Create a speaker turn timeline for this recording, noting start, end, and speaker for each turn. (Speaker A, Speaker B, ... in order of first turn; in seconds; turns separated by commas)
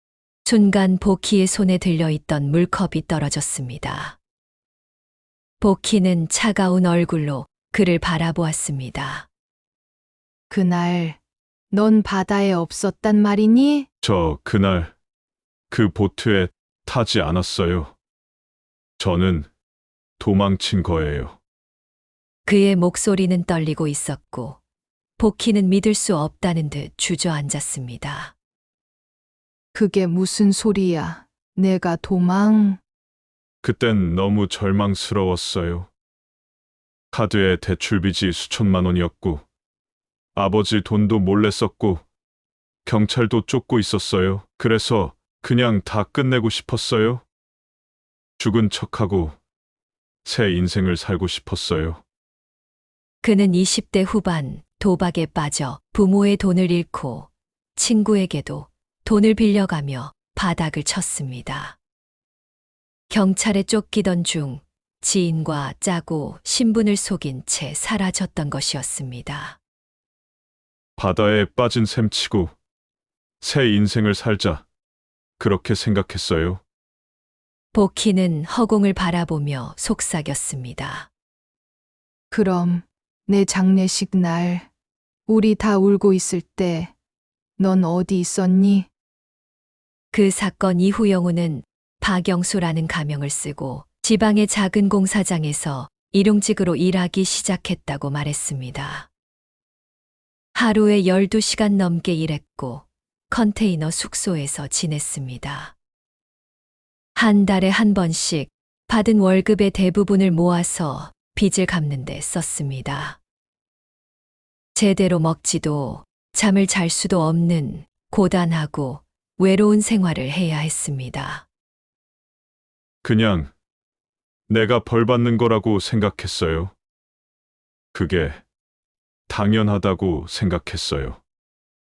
Speaker A: 0.5-4.2, Speaker A: 5.6-9.3, Speaker B: 10.5-11.2, Speaker B: 11.7-13.9, Speaker C: 14.0-14.9, Speaker C: 15.7-17.9, Speaker C: 19.0-19.5, Speaker C: 20.2-21.4, Speaker A: 22.4-24.6, Speaker A: 25.2-28.3, Speaker B: 29.7-32.8, Speaker C: 33.6-35.9, Speaker C: 37.1-39.4, Speaker C: 40.4-42.0, Speaker C: 42.8-47.2, Speaker C: 48.4-49.4, Speaker C: 50.2-52.0, Speaker A: 53.2-61.8, Speaker A: 63.1-69.6, Speaker C: 71.0-72.5, Speaker C: 73.4-74.6, Speaker C: 75.4-76.6, Speaker A: 77.7-81.1, Speaker B: 82.3-84.7, Speaker B: 85.3-86.9, Speaker B: 87.6-88.9, Speaker A: 90.1-99.1, Speaker A: 100.5-105.8, Speaker A: 107.2-113.2, Speaker A: 114.7-121.5, Speaker C: 123.0-123.5, Speaker C: 124.5-126.7, Speaker C: 127.9-128.4, Speaker C: 129.3-131.2